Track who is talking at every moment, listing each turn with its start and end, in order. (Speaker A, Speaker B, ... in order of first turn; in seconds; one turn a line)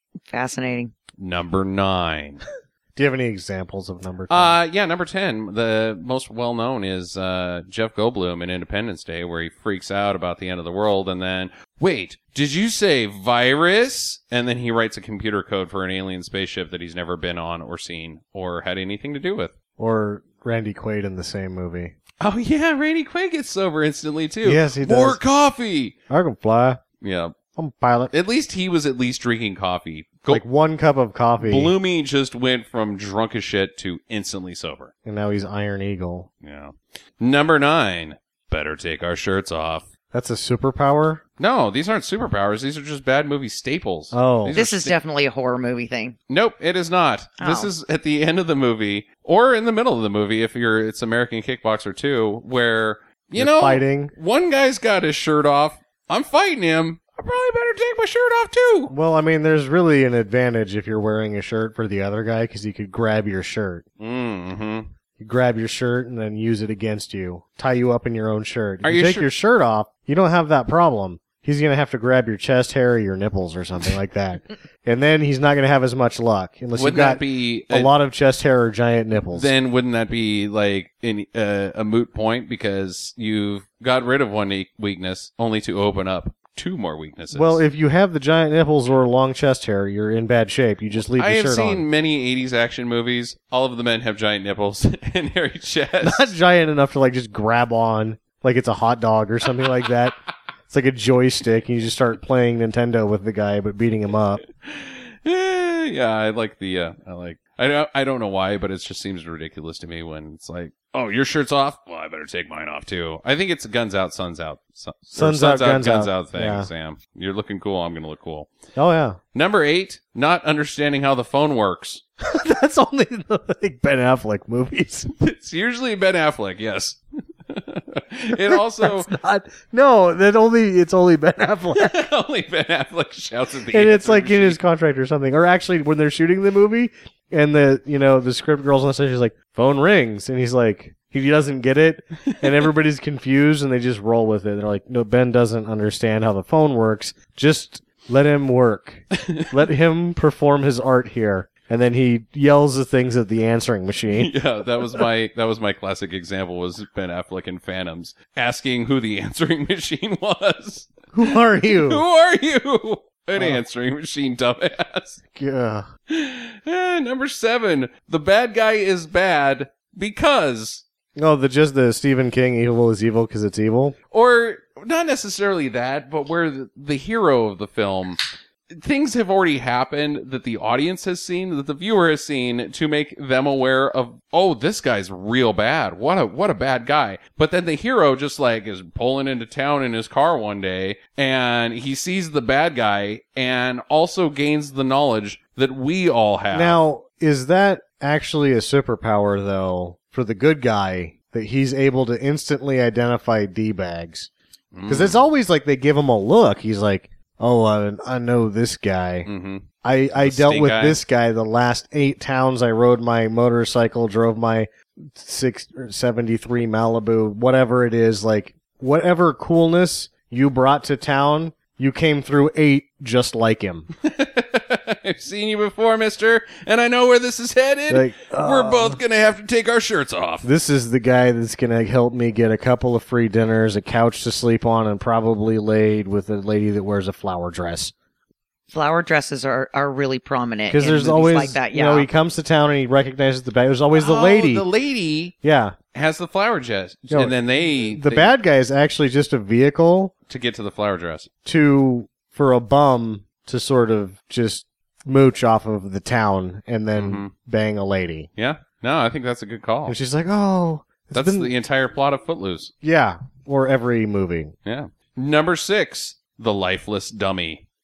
Speaker A: 0.2-0.9
Speaker B: 1.2-2.4
Speaker C: 3.0-4.6
Speaker B: 4.3-19.5
Speaker C: 19.8-21.9
Speaker B: 22.2-25.9
Speaker C: 24.4-25.2
Speaker C: 26.1-26.8
Speaker B: 27.0-27.4
Speaker C: 27.6-28.1
Speaker B: 28.1-30.4
Speaker C: 30.3-31.7
Speaker B: 31.4-34.9
Speaker C: 35.0-36.3
Speaker B: 36.4-39.9
Speaker C: 40.1-41.2
Speaker B: 41.4-45.0
Speaker C: 44.1-44.6
Speaker A: 44.5-46.2
Speaker B: 46.3-59.0
Speaker A: 47.4-47.7
Speaker C: 53.4-54.1
Speaker C: 58.9-63.8
Speaker B: 64.0-64.9
Speaker C: 65.2-79.5
Speaker B: 68.8-69.3
Speaker B: 76.8-77.9
Speaker B: 79.3-87.6
Speaker C: 87.3-91.8
Speaker B: 91.2-96.3
Speaker C: 96.0-104.4
Speaker B: 104.6-118.5
Speaker C: 115.2-116.7
Speaker C: 118.8-119.2
Speaker B: 119.3-122.0
Speaker C: 122.2-125.1
Speaker B: 125.2-129.1
Speaker C: 128.5-132.1
Speaker B: 131.8-134.6
Speaker C: 133.7-154.3
Speaker B: 149.2-149.5
Speaker B: 154.1-165.2
Speaker C: 161.1-162.0
Speaker C: 165.3-165.9
Speaker B: 166.1-170.8
Speaker C: 171.2-174.0
Speaker B: 174.1-196.8
Speaker C: 196.5-204.3
Speaker B: 204.7-205.2
Speaker C: 204.9-209.3
Speaker B: 209.2-209.7
Speaker C: 209.8-223.9
Speaker B: 210.2-211.0
Speaker B: 224.0-230.5
Speaker C: 227.9-229.0
Speaker C: 230.4-237.9
Speaker A: 238.7-242.1
Speaker C: 240.7-244.7
Speaker B: 243.9-245.3
Speaker C: 245.4-245.8
Speaker B: 245.9-248.3
Speaker C: 247.1-250.1
Speaker B: 250.3-251.3
Speaker C: 251.4-258.3
Speaker B: 257.0-257.3
Speaker B: 258.4-260.0
Speaker C: 259.9-261.5
Speaker B: 261.1-262.7
Speaker C: 262.8-264.5
Speaker B: 264.6-267.6